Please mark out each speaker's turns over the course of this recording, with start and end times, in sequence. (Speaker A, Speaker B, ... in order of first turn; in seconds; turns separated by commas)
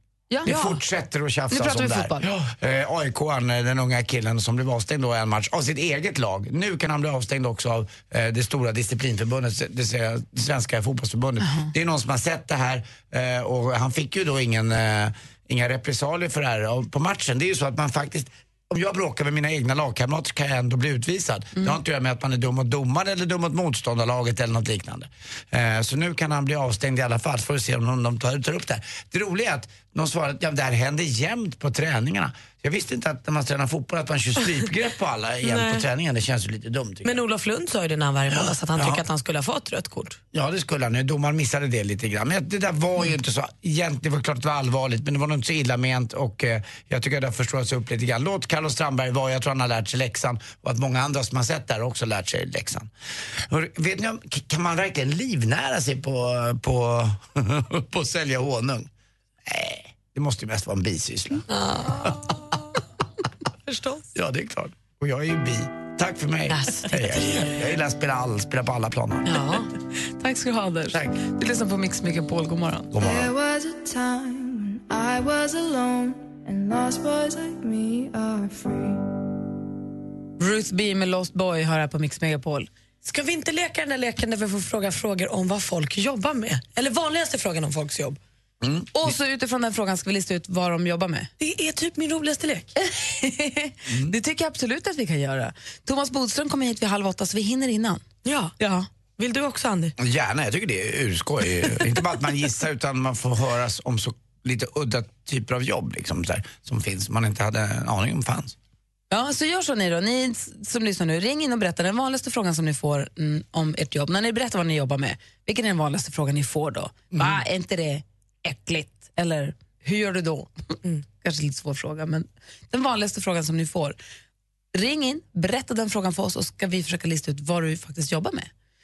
Speaker A: 0.3-0.7, Speaker B: 0.5-37.2, Speaker A: 1.5-2.3, Speaker A: 11.4-11.7, Speaker C: 35.4-35.8, Speaker C: 37.0-40.2, Speaker B: 38.3-39.0, Speaker B: 40.3-52.9, Speaker B: 53.5-58.9, Speaker B: 59.5-61.5, Speaker C: 61.5-62.7, Speaker C: 63.7-64.1, Speaker B: 64.1-69.3, Speaker C: 66.5-67.5, Speaker C: 69.3-69.7, Speaker A: 70.2-72.9, Speaker B: 72.9-73.3, Speaker D: 73.0-79.1, Speaker A: 80.4-82.7, Speaker C: 83.0-88.2, Speaker B: 88.6-89.1, Speaker A: 88.9-91.3, Speaker C: 91.4-92.7, Speaker A: 92.8-98.0, Speaker B: 93.9-94.1, Speaker C: 98.2-98.5, Speaker A: 98.6-98.9, Speaker C: 99.2-99.9, Speaker B: 100.0-108.6, Speaker A: 109.1-120.5, Speaker B: 117.1-117.4, Speaker A: 121.2-124.0, Speaker A: 124.7-128.5